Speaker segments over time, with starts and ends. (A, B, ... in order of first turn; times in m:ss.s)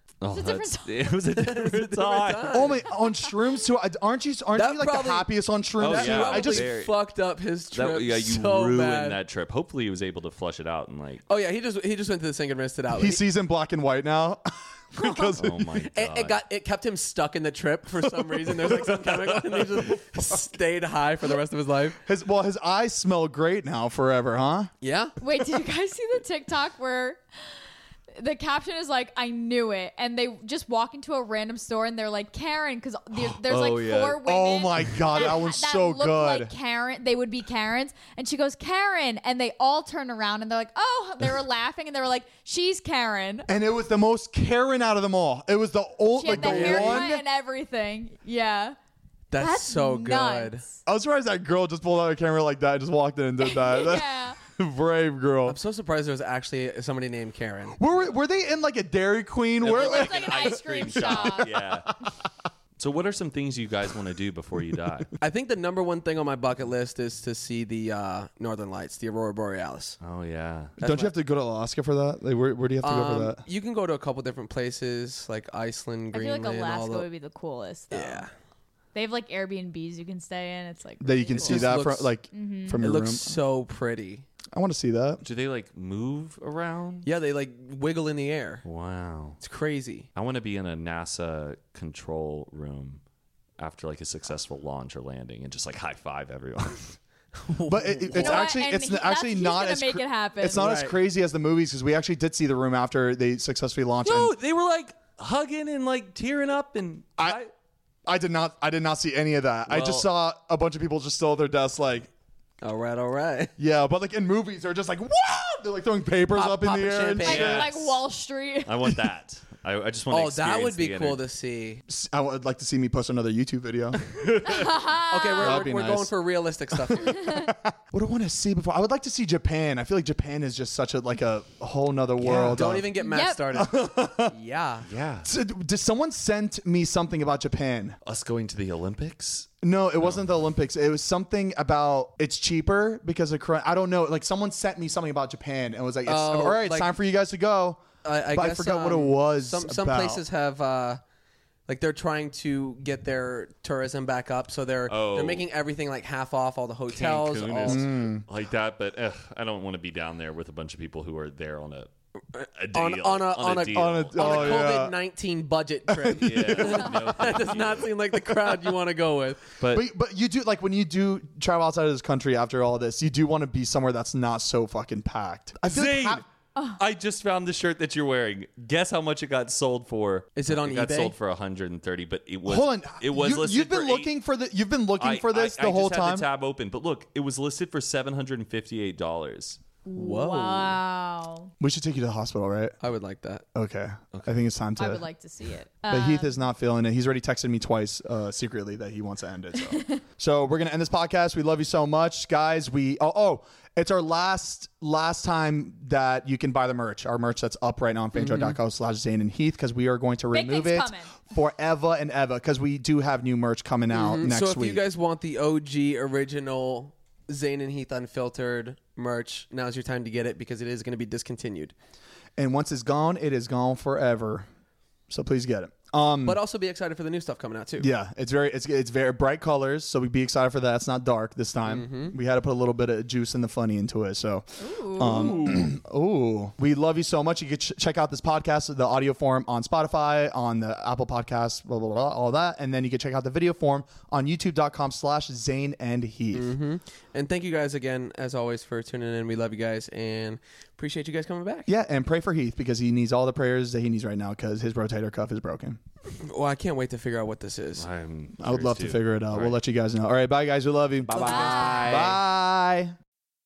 0:00.2-0:02.7 A
0:00.3-0:01.0 B
0:01.4-0:02.9 C
0:02.5-0:06.7 D
0:04.6-0:05.3 C
0:05.8-0:06.9 A
0:05.8-0:09.2 C
0:07.7-0:11.2 A
0:11.3-0:13.2 C
0:12.9-0:15.7 D
0:15.4-0:16.4 A
0:15.9-0:22.0 C
0:18.5-0:19.9 A
0:22.0-0:24.7 D
0:24.8-0:25.2 C
0:25.2-0:27.2 B
0:28.2-0:43.5 B
0:33.2-0:34.2 A
0:34.2-0:36.5 D
0:34.8-0:35.3 A
0:43.5-0:47.2 D
0:46.1-0:48.8 B
0:46.3-0:47.1 C
0:49.3-0:50.6 C
0:49.4-0:50.7 B
0:50.9-0:55.6 D
0:53.4-0:54.4 B
0:55.5-0:57.9 C
0:57.8-1:02.1 D
0:59.6-1:01.9 A
0:59.7-1:01.6 B
1:02.8-1:05.1 A
1:05.2-1:10.0 C
1:10.0-1:10.7 A
1:10.8-1:11.1 C
1:10.8-1:13.4 D
1:12.8-1:17.1 C
1:16.1-1:18.3 B
1:17.9-1:18.3 C
1:18.9-1:21.8 B
1:21.0-1:23.4 D
1:21.4-1:22.1 C
1:22.3-1:22.8 B
1:22.8-1:24.3 C
1:24.5-1:25.2 D
1:25.2-1:27.1 A
1:27.0-1:28.6 C
1:28.6-1:29.4 A
1:29.4-1:30.1 C
1:30.2-1:33.0 A
1:33.6-1:37.0 A
1:37.4-1:38.6 C
1:37.7-1:44.3 D
1:38.2-1:40.7 B
1:40.6-1:41.0 C
1:44.0-1:47.5 A
1:48.1-1:52.1 D
1:49.7-1:50.1 A
1:52.6-1:53.5 C
1:53.6-1:57.7 D
1:56.3-1:58.0 C
1:57.2-1:57.7 A
1:57.2-1:58.7 B
1:58.7-2:01.2 A
2:00.1-2:01.8 C
2:01.9-2:04.0 D
2:04.0-2:04.8 A
2:04.4-2:05.7 B
2:05.1-2:07.2 C
2:05.4-2:06.1 D
2:06.7-2:12.9 D
2:07.1-2:07.5 B
2:12.2-2:12.8 A
2:12.2-2:14.9 C
2:12.9-2:13.4 B
2:13.5-2:14.3 D
2:14.8-2:15.3 A
2:15.2-2:18.0 D
2:18.0-2:20.2 A
2:19.6-2:30.2 D
2:26.1-2:26.9 C
2:28.0-2:31.0 C
2:31.7-2:37.9 C
2:34.9-2:35.5 A
2:36.9-2:41.9 A
2:37.7-2:38.3 D
2:42.4-2:49.4 C
2:42.6-2:44.9 A
2:43.7-2:45.0 D
2:45.9-2:47.1 D
2:46.2-2:47.9 A
2:49.6-2:49.9 A
2:49.7-2:56.2 D
2:55.7-2:56.2 A
2:56.8-3:04.1 A
3:00.4-3:01.1 C
3:02.5-3:06.3 D
3:05.0-3:09.6 A
3:09.8-3:11.5 B
3:10.0-3:10.8 C
3:11.6-3:12.7 D
3:12.8-3:13.4 C
3:13.6-3:15.0 D
3:14.1-3:14.4 A
3:14.8-3:16.4 B
3:15.9-3:34.8 D
3:19.7-3:20.0 B
3:28.2-3:28.6 C
3:30.3-3:31.2 B
3:33.9-3:41.7 C
3:42.4-3:44.5 D
3:45.1-3:46.4 D
3:46.2-3:47.9 C
3:47.8-4:06.5 D
3:51.7-3:52.2 C
3:54.6-3:55.6 B
3:55.0-3:55.7 A
4:06.3-4:11.7 C
4:11.7-4:15.8 D
4:16.2-4:17.9 C
4:17.8-4:19.6 A
4:18.4-4:22.9 D
4:21.1-4:22.2 A
4:21.2-4:22.1 B